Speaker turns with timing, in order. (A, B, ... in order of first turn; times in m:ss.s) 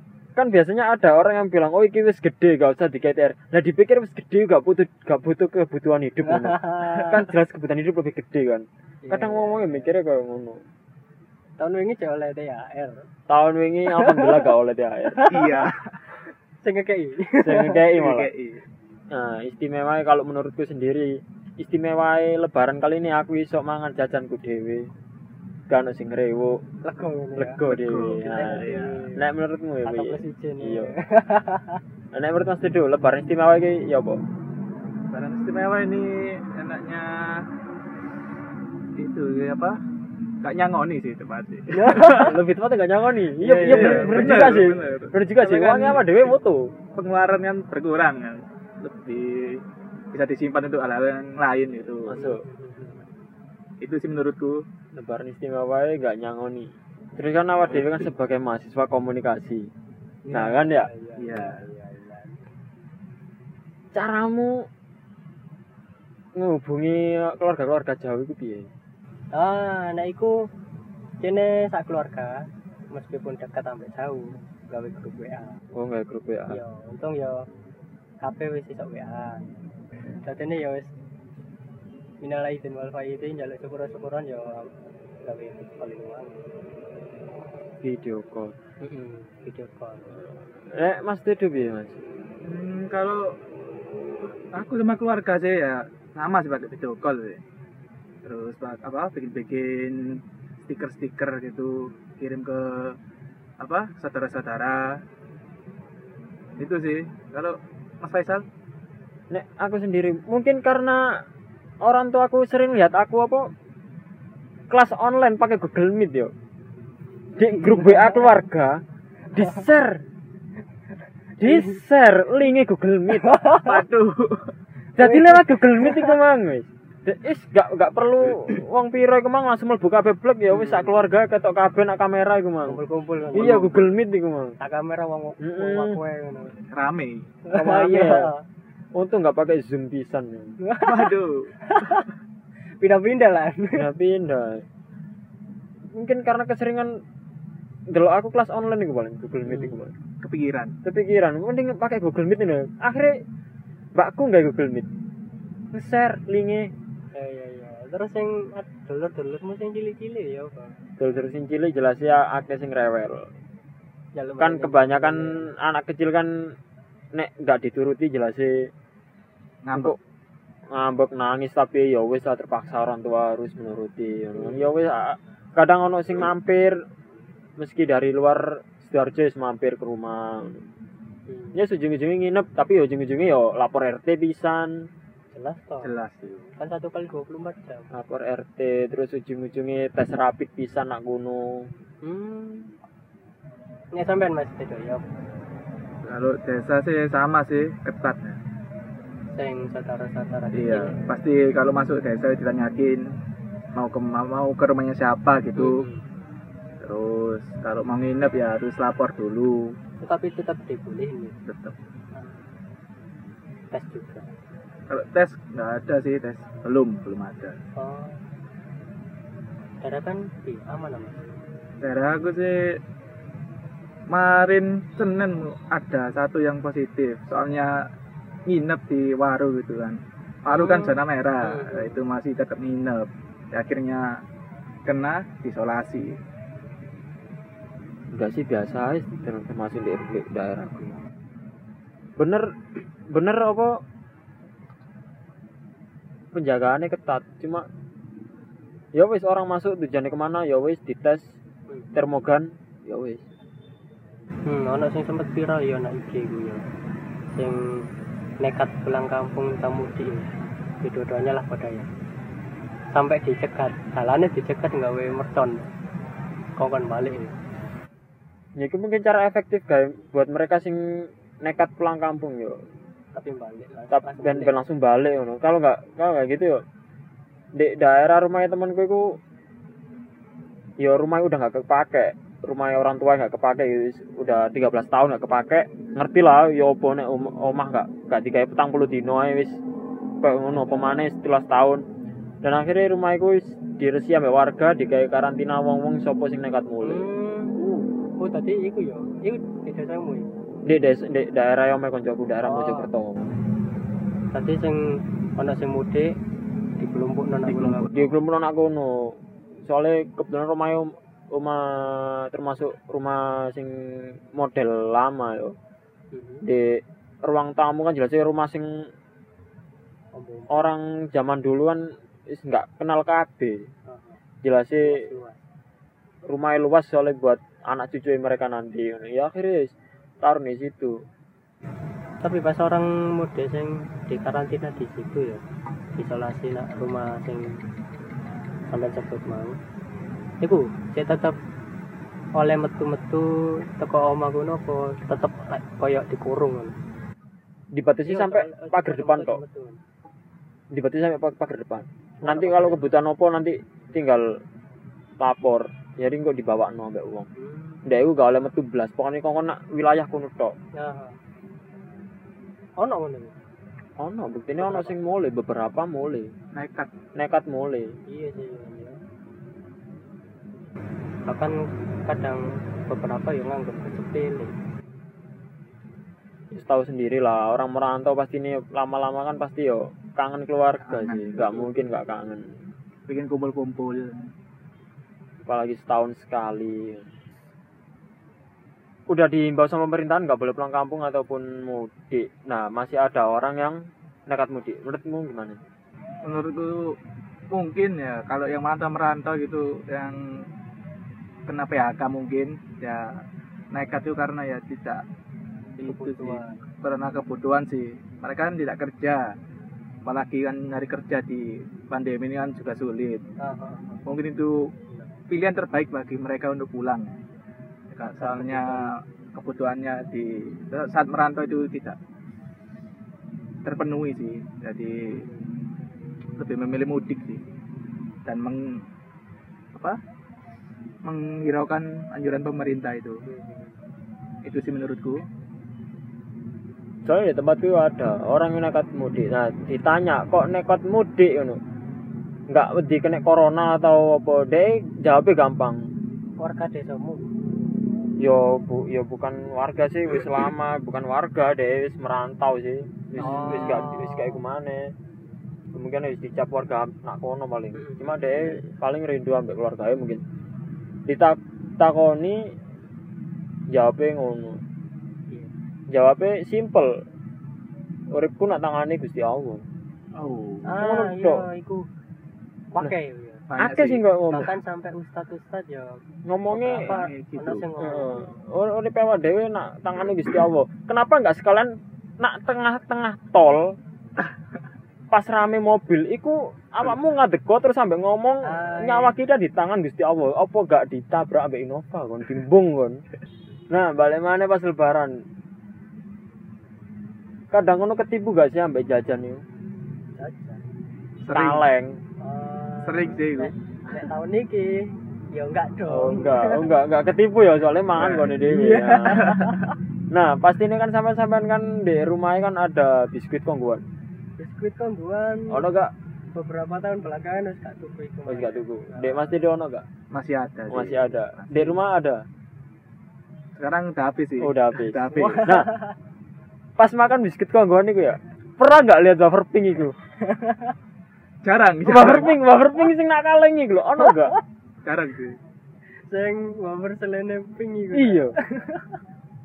0:00.4-0:10.6 A
0:06.3-0:07.3 B
0:09.0-0:09.9 B
0:11.6-0:13.1 B
0:13.3-0:15.2 A
0:13.9-0:14.5 B
0:15.2-0:15.7 B
0:15.3-0:16.0 C
0:16.6-0:18.0 B
0:17.4-0:18.3 A
0:18.0-0:18.6 C
0:19.1-0:24.9 A
0:25.7-0:26.6 A
0:26.8-0:27.6 B
0:27.4-0:28.6 A
0:27.6-0:29.1 C
0:28.2-0:29.2 B
0:29.2-0:30.9 A
0:29.8-0:31.8 B
0:32.1-0:34.2 A
0:35.1-0:37.5 C
0:39.0-0:39.8 C
0:40.4-0:42.3 C
0:41.7-0:42.3 B
0:42.2-0:46.7 A
0:43.4-0:46.3 C
0:43.7-0:44.3 B
0:47.0-0:52.2 C
0:52.1-0:52.4 A
0:52.1-0:53.1 B
0:53.8-0:54.6 C
0:55.0-0:59.7 A
0:57.7-0:58.1 C
1:00.3-1:00.6 C
1:00.3-1:00.9 A
1:00.4-1:02.5 B
1:01.2-1:01.6 C
1:03.9-1:04.5 A
1:06.4-1:08.7 A
1:09.3-1:10.3 B
1:11.2-1:12.3 B
1:12.9-1:15.6 B
1:15.7-1:16.6 A
1:16.5-1:17.4 B
1:18.2-1:19.5 B
1:20.2-1:20.9 B
1:22.2-1:24.7 B
1:25.2-1:26.4 B
1:27.8-1:28.5 A
1:28.8-1:30.1 B
1:30.7-1:32.0 A
1:32.4-1:33.4 C
1:34.5-1:37.4 C
1:38.2-1:43.0 C
1:43.6-1:45.0 C
1:46.6-1:48.4 C
1:49.3-1:51.0 A
1:51.8-1:53.5 A
1:54.7-1:56.3 A
1:57.4-1:58.8 A
1:57.6-1:58.3 B
1:59.3-2:00.0 A
1:59.4-1:59.7 B
2:01.4-2:01.8 B
2:01.4-2:03.4 A
2:03.2-2:03.8 B
2:03.6-2:04.5 C
2:05.0-2:12.8 A
2:05.0-2:06.2 B
2:10.5-2:11.0 B
2:12.7-2:13.7 B
2:13.3-2:13.9 C
2:13.3-2:14.6 A
2:14.6-2:16.6 B
2:15.4-2:16.0 A
2:16.6-2:17.3 C
2:17.5-2:18.4 B
2:17.5-2:18.3 A
2:18.9-2:20.6 A
2:20.6-2:22.1 B
2:20.8-2:21.5 C
2:22.8-2:23.9 B
2:23.7-2:24.6 A
2:26.0-2:26.9 A
2:27.9-2:29.9 A
2:29.5-2:29.8 B
2:30.2-2:30.8 C
2:30.8-2:33.2 A
2:34.0-2:34.9 A
2:35.7-2:36.7 A
2:37.1-2:40.8 B
2:41.0-2:43.3 A
2:44.2-2:45.6 B
2:44.4-2:46.3 A
2:47.2-2:48.7 A
2:49.6-2:50.0 C
2:49.7-2:50.0 A
2:50.7-2:56.8 A
2:54.4-2:54.8 B
2:57.6-3:00.6 A
3:01.3-3:01.6 B
3:01.6-3:04.7 A
3:05.3-3:06.0 B
3:05.8-3:06.5 C
3:06.6-3:07.9 B
3:07.9-3:11.7 A
3:12.0-3:12.7 B
3:14.0-3:15.0 B
3:16.0-3:18.4 C
3:19.4-3:21.0 B
3:20.5-3:23.0 C
3:23.8-3:25.9 C
3:25.6-3:26.0 B
3:26.8-3:29.7 C
3:30.0-3:31.4 B
3:31.4-3:31.8 C
3:32.1-3:32.5 B
3:33.7-3:34.3 B
3:34.9-3:37.6 C
3:37.8-3:38.2 B
3:39.8-3:41.2 B
3:41.8-3:42.8 C
3:44.1-3:47.8 C
3:48.5-3:54.1 C
3:50.5-3:52.0 B
3:54.9-3:56.2 C
3:58.1-4:01.0 A
4:02.2-4:02.5 A
4:03.1-4:03.7 A
4:06.3-4:07.6 A
4:09.0-4:11.3 A
4:12.0-4:13.3 A
4:14.5-4:16.6 B
4:17.3-4:17.9 B
4:18.4-4:20.3 B
4:20.8-4:21.9 B
4:22.9-4:25.7 B
4:26.6-4:27.4 B
4:28.6-4:30.8 A
4:31.4-4:32.6 A
4:33.1-4:34.6 B
4:33.9-4:36.6 A
4:37.6-4:39.2 A
4:40.8-4:49.6 A
4:50.2-4:51.8 A
4:50.5-4:51.1 B
4:52.4-4:57.0 A
4:56.8-4:57.6 B
4:58.2-5:00.3 B
5:00.7-5:03.3 A
5:02.4-5:02.9 B
5:04.3-5:04.8 B
5:05.4-5:06.2 B
5:06.8-5:08.0 B
5:07.4-5:07.9 C
5:07.9-5:13.7 A
5:14.4-5:15.6 A
5:16.1-5:16.4 B
5:17.2-5:18.7 A
5:20.1-5:20.7 B
5:20.5-5:21.8 A
5:22.3-5:23.7 A
5:23.9-5:24.2 B
5:24.4-5:25.0 A
5:24.8-5:25.4 B
5:26.3-5:29.7 A
5:30.2-5:31.0 A
5:32.2-5:35.4 B
5:36.0-5:37.4 B
5:38.7-5:39.6 B
5:40.4-5:41.4 B
5:42.4-5:46.8 B
5:47.8-5:49.4 A
5:48.1-5:49.8 B
5:50.7-5:54.2 A
5:52.2-5:52.9 B
5:55.2-5:57.3 A
5:57.4-5:57.9 B
5:57.9-6:00.5 A
6:00.8-6:01.2 B
6:02.8-6:03.4 B
6:04.0-6:06.3 A
6:04.6-6:05.0 B
6:06.5-6:06.9 C
6:07.2-6:07.9 A
6:08.1-6:09.0 B
6:11.3-6:11.6 B
6:12.1-6:14.5 B
6:16.5-6:22.5 A
6:20.8-6:21.8 C
6:23.1-6:24.3 C
6:25.4-6:27.2 A
6:29.1-6:35.6 A
6:36.2-6:36.8 C
6:37.5-6:40.4 C
6:41.5-6:43.2 C
6:43.7-6:45.0 C
6:45.8-6:49.2 C
6:45.8-6:46.6 B
6:50.0-6:53.2 C
6:53.4-6:54.0 B
6:54.1-6:54.7 C
6:55.3-6:57.2 C
6:57.9-7:02.0 C
6:58.0-6:58.9 B
7:03.6-7:05.3 C
7:05.1-7:05.5 B
7:06.4-7:07.4 C
7:08.3-7:08.8 C
7:11.0-7:13.2 C
7:13.3-7:13.8 B
7:14.4-7:15.2 C
7:17.1-7:21.6 A
7:22.5-7:25.8 A
7:26.4-7:27.3 B
7:28.2-7:34.9 A
7:33.2-7:33.9 C
7:33.2-7:34.4 B
7:35.7-7:40.2 A
7:37.8-7:38.7 B
7:41.1-7:42.4 A
7:43.7-7:44.6 A
7:45.9-7:46.9 A
7:48.1-7:49.6 A
7:50.2-7:50.8 C
7:50.6-7:51.9 B
7:50.8-7:51.4 A
7:52.7-7:53.4 B
7:53.5-7:54.0 C
7:53.6-7:54.5 A
7:54.3-7:56.0 B
7:56.3-7:57.0 A
7:56.5-7:58.4 B
7:56.7-7:57.7 C
7:57.8-8:03.6 A
8:05.1-8:13.0 A
8:08.5-8:09.2 B
8:13.7-8:15.1 A
8:17.5-8:19.4 A
8:20.2-8:20.6 B
8:21.2-8:21.6 C
8:21.3-8:22.0 A
8:22.2-8:26.7 B
8:22.8-8:23.5 C
8:25.9-8:29.3 A
8:28.0-8:28.4 C
8:28.4-8:29.6 B
8:29.2-8:29.5 C
8:30.1-8:33.8 A
8:34.4-8:35.7 B
8:35.5-8:35.9 A
8:36.3-8:39.4 B
8:38.3-8:39.8 A
8:40.1-8:41.8 C
8:40.7-8:42.2 A
8:43.6-8:45.5 C
8:44.4-8:45.7 A
8:45.2-8:46.0 B
8:46.8-8:50.0 A
8:50.3-8:50.7 B
8:51.4-8:52.4 C
8:51.8-8:54.4 A
8:54.8-8:55.4 C
8:56.1-8:59.0 B
8:57.9-8:58.3 A